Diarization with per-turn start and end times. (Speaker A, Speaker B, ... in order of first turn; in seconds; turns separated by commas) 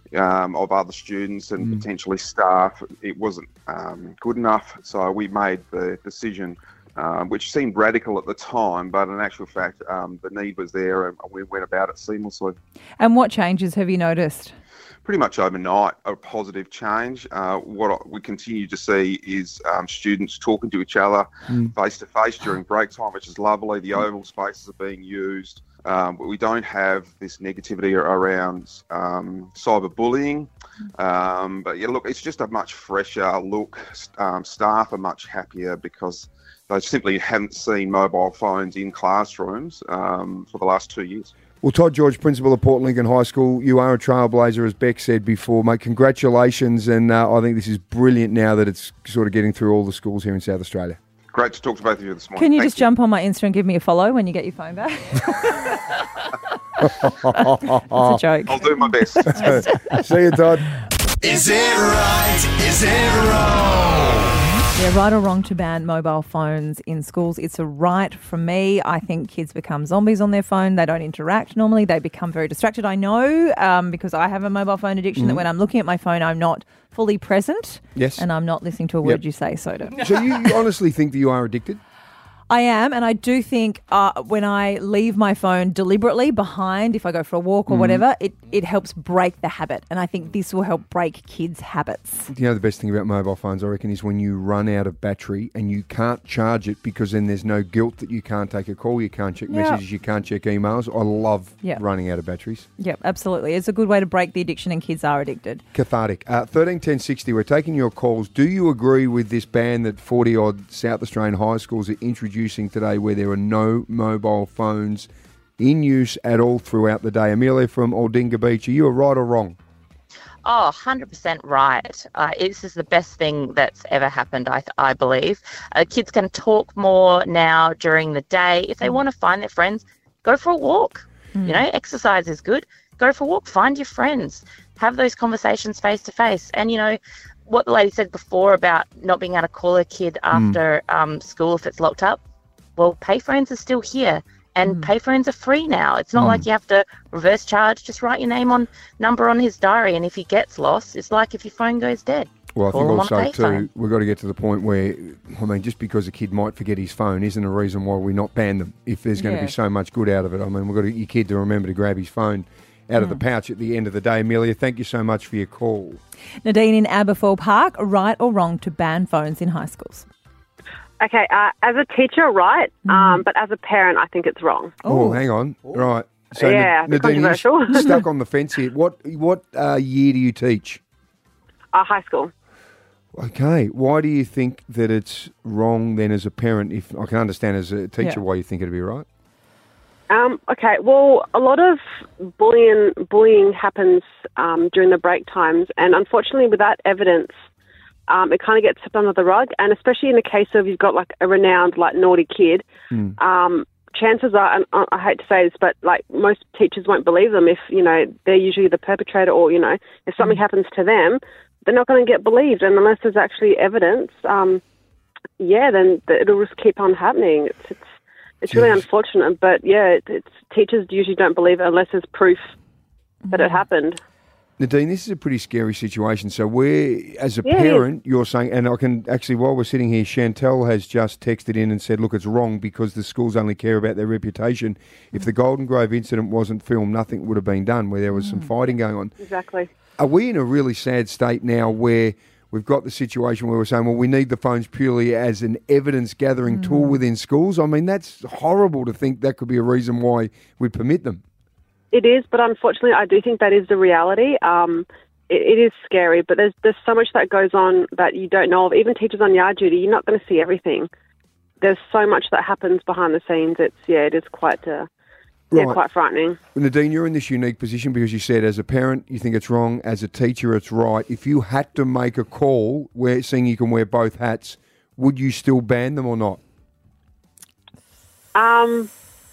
Speaker A: 0.1-12.6, Speaker B: 13.0-14.6, Speaker A: 15.1-21.2, Speaker A: 21.8-41.3, Speaker C: 41.6-51.0, Speaker A: 51.3-52.7, Speaker B: 52.4-56.3, Speaker C: 56.8-58.2, Speaker B: 57.0-60.0, Speaker A: 58.5-59.6, Speaker C: 59.3-60.7, Speaker D: 61.2-64.3, Speaker B: 64.7-80.3, Speaker C: 75.2-75.4, Speaker C: 77.9-78.2, Speaker C: 80.0-81.8, Speaker B: 82.5-92.3, Speaker C: 87.7-88.0, Speaker C: 92.3-102.7, Speaker B: 99.5-99.8, Speaker B: 102.8-105.6, Speaker C: 105.7-115.1, Speaker C: 115.6-119.6, Speaker E: 120.4-142.2, Speaker B: 131.3-131.7, Speaker C: 140.3-140.6, Speaker E: 142.8-153.7, Speaker B: 144.6-144.9, Speaker C: 146.1-146.4, Speaker C: 152.5-166.0, Speaker B: 159.2-159.5, Speaker B: 166.4-170.1, Speaker F: 171.0-174.8, Speaker B: 172.9-173.2, Speaker B: 174.8-175.2, Speaker C: 174.8-180.8, Speaker F: 176.3-178.0, Speaker F: 181.7-182.3, Speaker C: 183.1-189.1, Speaker F: 190.1-191.8, Speaker F: 192.4-197.3, Speaker F: 198.1-202.6, Speaker F: 203.2-214.6, Speaker F: 215.4-217.8, Speaker F: 218.4-222.5, Speaker C: 218.5-218.8, Speaker B: 223.3-223.6, Speaker F: 223.3-224.0, Speaker C: 224.6-239.1, Speaker F: 227.4-227.8, Speaker B: 238.2-238.5, Speaker F: 239.2-239.7, Speaker C: 240.0-251.2, Speaker B: 246.5-247.0, Speaker F: 251.9-260.9, Speaker F: 261.6-264.9, Speaker C: 265.5-265.8, Speaker F: 265.5-266.4, Speaker C: 266.5-276.4, Speaker F: 278.3-278.9